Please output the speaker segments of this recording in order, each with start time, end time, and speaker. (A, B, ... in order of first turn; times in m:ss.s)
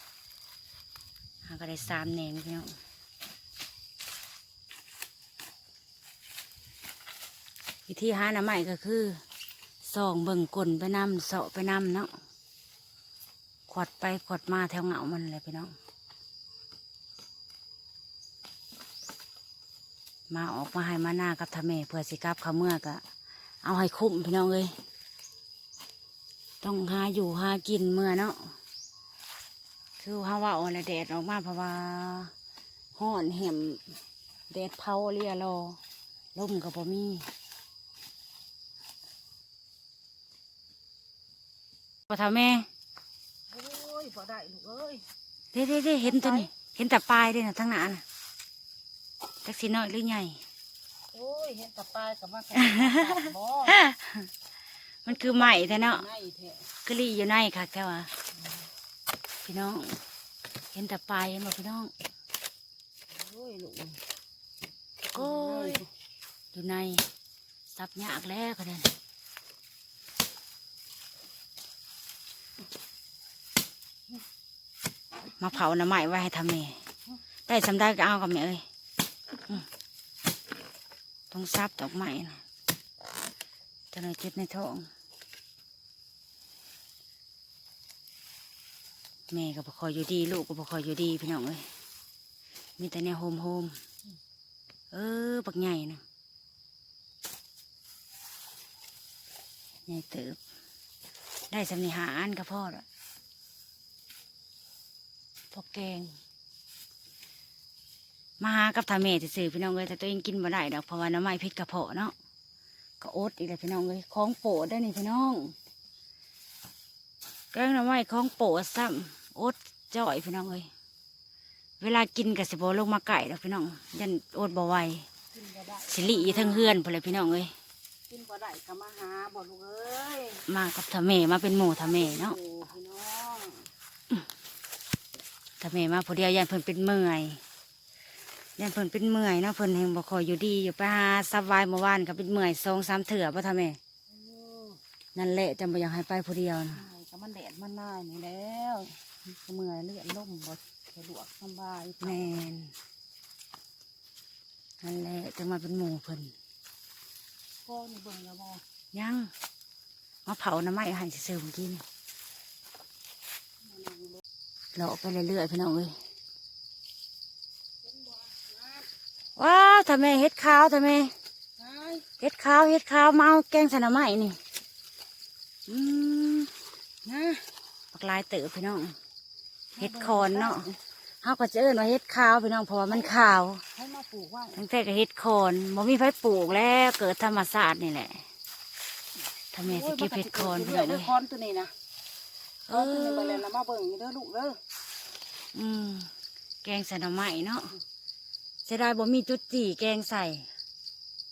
0:01.4-0:02.7 A
0:07.9-0:09.2 A
0:09.8-0:12.1 A
0:13.7-0:15.7 A
0:20.3-0:23.0 A
0:23.6-0:24.7 A
0:26.6-0:28.5 A
0:30.0-0:32.3 A
0:32.9-0:33.8 A
0:34.5-0:35.8 A
0:36.3-0:37.2 A
0:42.1-0:42.7 A
0:43.5-0:45.0 B
0:45.5-0:48.0 A
0:46.0-0:46.5 B
0:49.4-0:50.4 A
0:51.1-0:53.8 B
0:52.6-0:54.3 A
0:55.0-0:56.0 A
0:55.1-0:56.6 B
0:56.8-0:58.1 A
0:59.4-1:00.0 A
1:00.7-1:01.9 A
1:03.1-1:04.0 B
1:05.1-1:05.8 A
1:05.1-1:05.9 B
1:06.5-1:07.0 A
1:07.7-1:08.9 A
1:15.4-1:16.8 A
1:17.5-1:18.6 A
1:21.3-1:22.4 A
1:23.9-1:24.9 A
1:29.3-1:31.7 A
1:32.8-1:33.8 A
1:34.9-1:36.0 A
1:39.9-1:40.4 A
1:41.5-1:42.8 A
1:45.5-1:46.1 A
1:48.4-1:52.1 A
1:53.0-1:55.5 A
1:57.5-2:00.7 A
2:01.8-2:05.0 A
2:05.3-2:06.8 B
2:05.9-2:07.5 A
2:08.1-2:10.4 B
2:10.4-2:12.4 A
2:11.6-2:13.7 B
2:15.6-2:17.4 A
2:18.6-2:23.8 A
2:24.1-2:24.8 B
2:25.1-2:26.8 A
2:26.7-2:32.4 B
2:32.0-2:32.7 A
2:34.8-2:36.3 A
2:37.6-2:38.6 B
2:38.9-2:39.3 A
2:40.2-2:41.8 A
2:43.6-2:44.2 B
2:44.7-2:45.9 A
2:47.8-2:48.9 B
2:49.4-2:51.1 A
2:51.6-2:52.0 B
2:52.2-2:54.4 A
2:55.7-2:56.5 A
2:57.0-2:57.5 B
2:57.9-2:59.0 A
2:59.7-3:00.8 B
2:59.8-3:00.6 A
3:01.2-3:03.6 A
3:02.9-3:04.6 B
3:04.5-3:08.2 A
3:09.5-3:11.1 A
3:09.6-3:11.7 B
3:12.7-3:13.4 A
3:12.7-3:14.6 B
3:15.5-3:16.1 A
3:16.6-3:17.7 A
3:18.6-3:20.5 A